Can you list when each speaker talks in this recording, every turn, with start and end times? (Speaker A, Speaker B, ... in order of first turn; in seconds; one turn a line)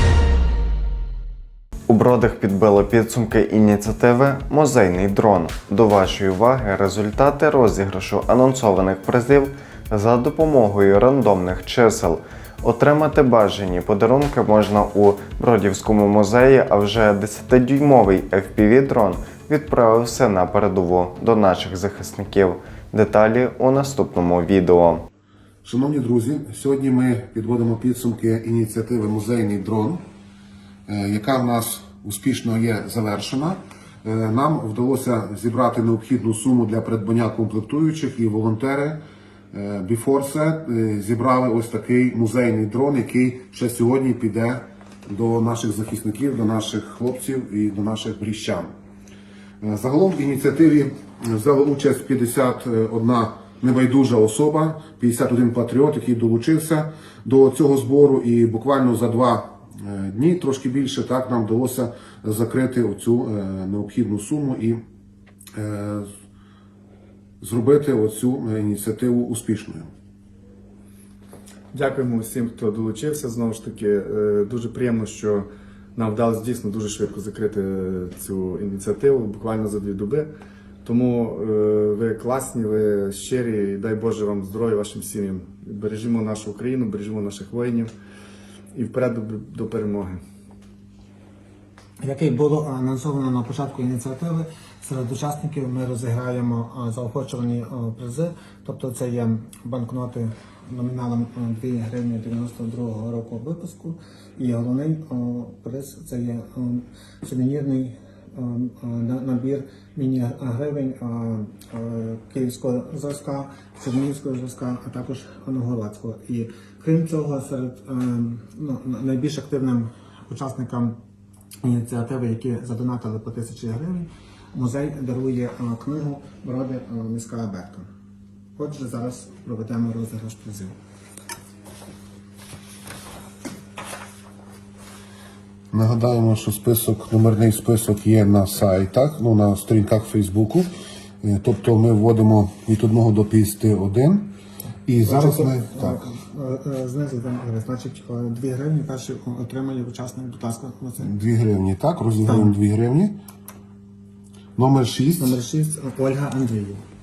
Speaker A: 1.9-25.1
Speaker B: 25.6-30.0
Speaker B: 30.9-39.0
Speaker B: 39.5-48.7
Speaker B: 49.6-64.8
Speaker B: 65.5-66.1
Speaker B: 67.4-69.9
Speaker C: 71.7-80.3
Speaker C: 80.8-87.9
Speaker C: 88.7-90.2
Speaker D: 92.0-121.0
Speaker D: 121.6-127.9
Speaker D: 128.6-130.8
Speaker B: 135.7-140.7
Speaker B: 141.2-144.3
Speaker B: 144.9-146.0
Speaker D: 145.1-151.1
Speaker B: 151.0-153.2
Speaker D: 152.2-152.5
Speaker B: 154.6-155.4
Speaker D: 155.2-156.8